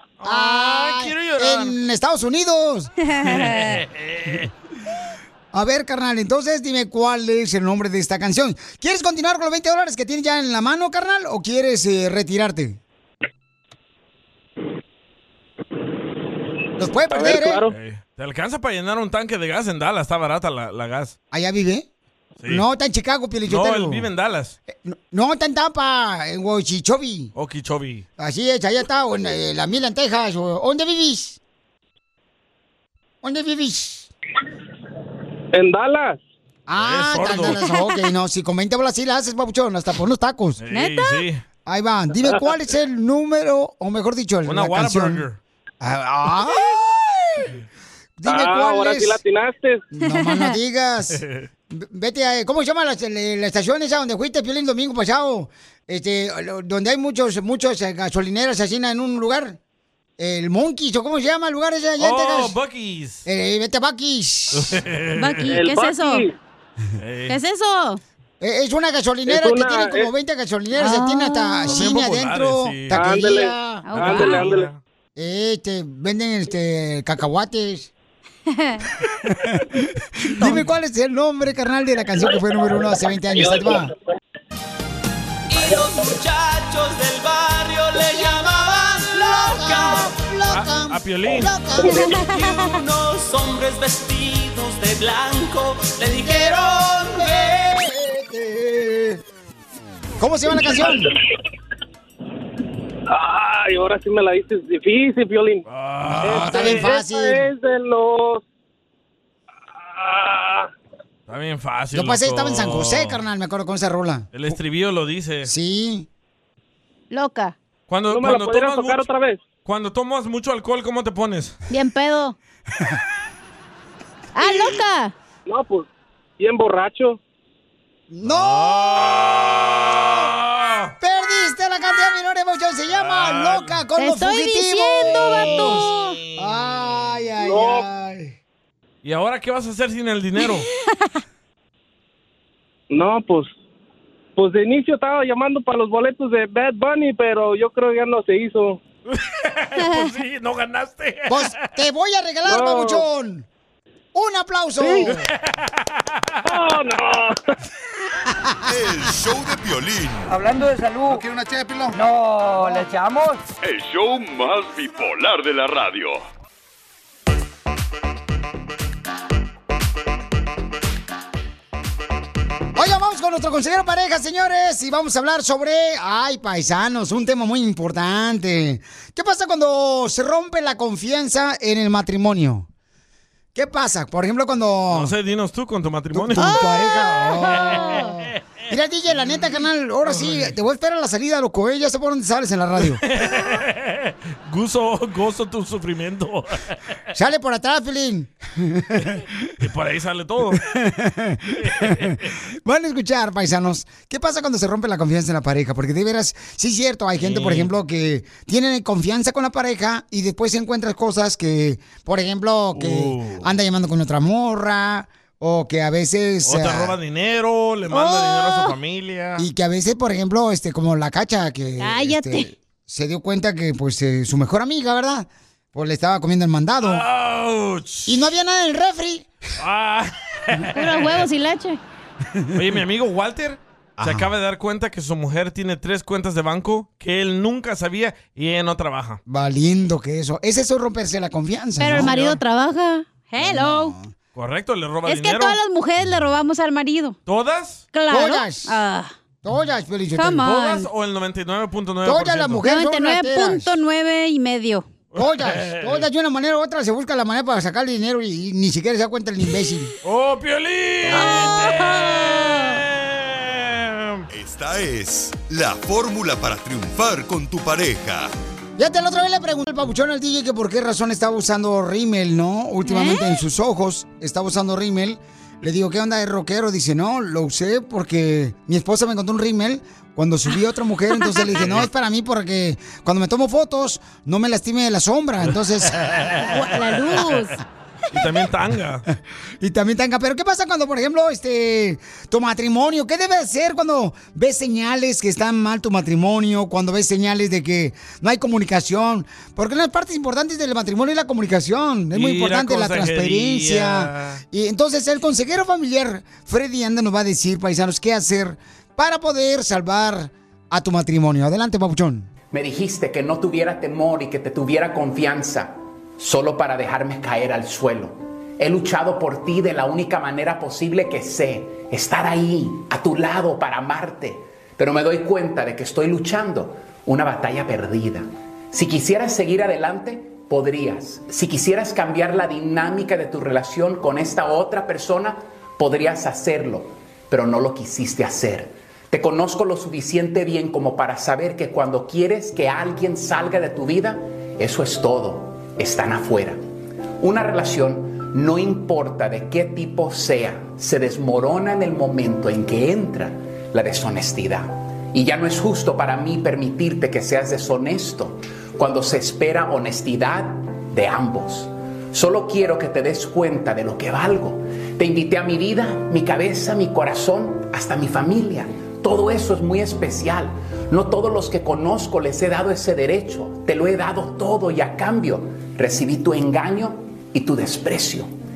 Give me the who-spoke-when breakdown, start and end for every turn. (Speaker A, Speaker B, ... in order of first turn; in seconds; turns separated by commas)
Speaker A: 0.2-1.8, Speaker B: 0.2-2.9, Speaker C: 3.1-3.8, Speaker A: 3.4-4.5, Speaker B: 5.5-12.8, Speaker B: 16.8-17.6, Speaker D: 17.1-17.7, Speaker A: 17.7-21.1, Speaker B: 21.3-21.9, Speaker A: 22.4-22.6, Speaker B: 22.5-24.1, Speaker A: 23.4-24.6, Speaker B: 24.7-27.3, Speaker A: 27.4-28.1, Speaker B: 28.2-31.4, Speaker B: 33.2-34.1, Speaker D: 35.5-36.2, Speaker B: 36.7-40.6, Speaker A: 36.8-37.6, Speaker A: 40.6-41.4, Speaker C: 40.7-41.2, Speaker B: 41.7-45.2, Speaker A: 44.5-45.4, Speaker B: 45.8-46.9, Speaker B: 48.2-49.2, Speaker D: 48.3-49.9, Speaker B: 49.9-59.6, Speaker C: 50.1-50.5, Speaker B: 60.2-62.5, Speaker A: 62.0-63.3, Speaker B: 63.3-64.8, Speaker A: 64.5-65.5, Speaker C: 65.2-66.3, Speaker D: 65.5-66.3, Speaker A: 67.0-67.4, Speaker C: 67.3-68.0, Speaker B: 68.4-73.9, Speaker D: 69.3-70.1, Speaker C: 70.8-71.8, Speaker A: 71.7-73.0, Speaker D: 72.9-74.7, Speaker C: 73.8-74.5, Speaker A: 74.0-74.8, Speaker B: 75.2-77.9, Speaker C: 78.5-78.8, Speaker B: 79.5-83.9, Speaker E: 85.5-90.0, Speaker B: 88.1-92.2, Speaker A: 90.5-91.5, Speaker E: 92.2-97.0, Speaker B: 96.2-99.2, Speaker B: 100.2-101.1, Speaker D: 103.1-105.6, Speaker A: 105.7-106.9, Speaker B: 106.1-107.5, Speaker D: 106.2-108.4, Speaker D: 109.8-110.7, Speaker A: 111.3-113.2, Speaker B: 111.9-114.3, Speaker A: 114.3-115.5, Speaker B: 115.4-116.1, Speaker C: 117.1-117.5, Speaker A: 117.9-119.1, Speaker D: 118.1-119.4, Speaker A: 119.7-121.6, Speaker C: 121.7-122.4, Speaker C: 124.3-125.1, Speaker D: 125.5-125.9, Speaker D: 126.4-127.2, Speaker B: 128.1-130.3, Speaker A: 128.2-130.9, Speaker B: 131.0-138.3, Speaker A: 132.9-133.8, Speaker C: 134.0-136.2, Speaker A: 135.2-136.8, Speaker D: 137.4-137.9, Speaker A: 139.0-140.7, Speaker C: 140.9-141.1, Speaker D: 142.9-143.5, Speaker D: 144.4-148.8, Speaker A: 149.1-151.7, Speaker C: 149.8-150.1, Speaker B: 151.3-153.5, Speaker D: 152.4-153.1, Speaker B: 154.1-155.3, Speaker A: 155.1-156.3, Speaker D: 156.4-157.4, Speaker F: 158.7-160.3, Speaker G: 160.3-161.3, Speaker G: 161.9-163.4, Speaker H: 163.6-166.2, Speaker B: 172.8-182.7, Speaker B: 183.6-185.2, Speaker A: 184.9-186.6, Speaker B: 186.1-193.0, Speaker C: 186.4-188.1, Speaker A: 190.1-190.5, Speaker A: 193.0-196.7, Speaker B: 197.1-199.4, Speaker A: 199.6-200.6, Speaker B: 200.5-216.9, Speaker A: 201.6-202.2, Speaker A: 207.2-207.7, Speaker A: 212.7-213.5, Speaker A: 216.4-219.5, Speaker C: 217.9-218.7, Speaker B: 219.4-227.1, Speaker C: 221.8-222.5, Speaker A: 226.8-228.2, Speaker B: 228.1-229.3, Speaker A: 229.6-231.2, Speaker C: 230.7-231.8, Speaker B: 232.3-232.6, Speaker A: 232.5-239.2, Speaker B: 234.0-234.3, Speaker B: 239.3-242.2, Speaker C: 241.8-244.0, Speaker A: 241.9-242.4, Speaker B: 243.4-244.1, Speaker A: 244.3-245.6, Speaker C: 245.1-247.2, Speaker A: 247.3-247.8, Speaker C: 247.9-249.1, Speaker B: 248.1-248.8, Speaker B: 249.4-250.5, Speaker C: 250.2-250.9, Speaker A: 250.4-252.6, Speaker B: 252.1-253.8, Speaker C: 252.6-254.9, Speaker A: 255.1-256.1, Speaker B: 255.2-259.9, Speaker A: 260.0-264.3, Speaker C: 261.1-262.8, Speaker F: 264.3-268.3, Speaker B: 268.8-286.0, Speaker C: 272.9-273.4, Speaker A: 281.6-281.9, Speaker C: 286.4-287.6, Speaker A: 288.1-289.0, Speaker B: 289.6-312.3, Speaker A: 302.1-304.4, Speaker I: 312.5-346.6, Speaker I: 347.2-378.3